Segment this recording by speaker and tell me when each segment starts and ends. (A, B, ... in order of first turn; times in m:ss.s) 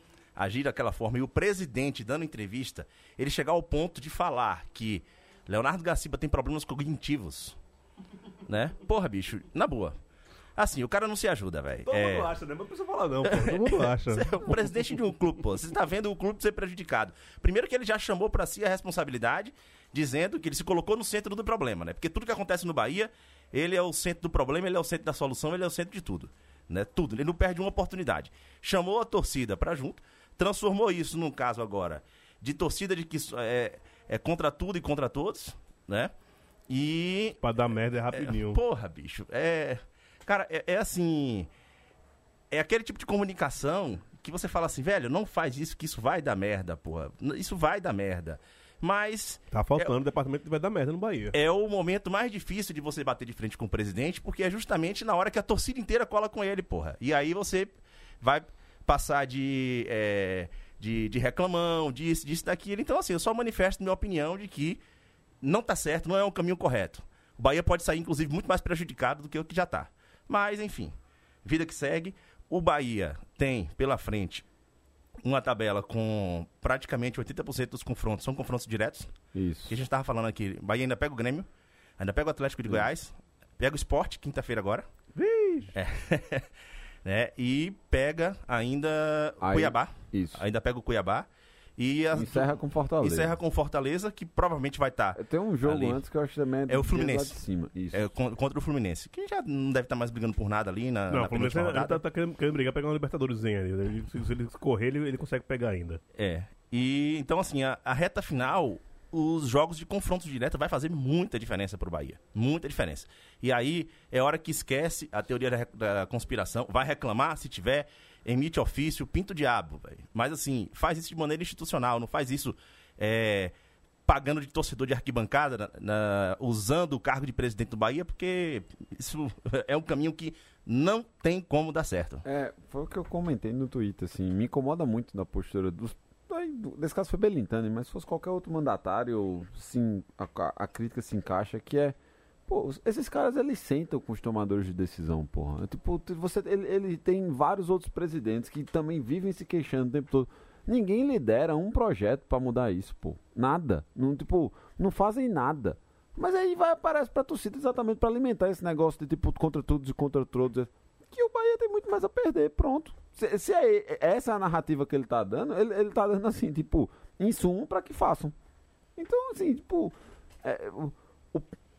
0:00.4-0:07.6 A
0:08.5-0:10.0 A
0:10.6-0:12.3 A
0:11.8-0:14.5 B
0:13.3-0:36.1 A
0:36.7-0:37.5 A
0:37.4-0:38.6 B
0:38.1-0:41.5 A
0:42.5-0:49.9 A
0:49.5-0:51.4 B
0:51.3-1:04.8 A
1:05.4-1:10.9 A
1:11.4-1:14.4 A
1:15.2-1:19.2 A
1:19.4-1:19.8 C
1:19.7-1:21.5 A
1:22.0-1:24.9 A
1:25.2-1:25.7 B
1:25.7-1:26.5 A
1:27.0-1:31.3 A
1:29.4-1:30.4 C
1:31.8-1:36.0 A
1:32.1-1:33.4 C
1:35.2-1:38.1 C
1:36.7-1:37.4 A
1:37.9-1:42.0 A
1:41.1-1:46.0 B
1:46.2-2:03.5 A
2:04.1-2:12.2 A
2:12.2-2:48.4 C
2:49.0-2:51.5 C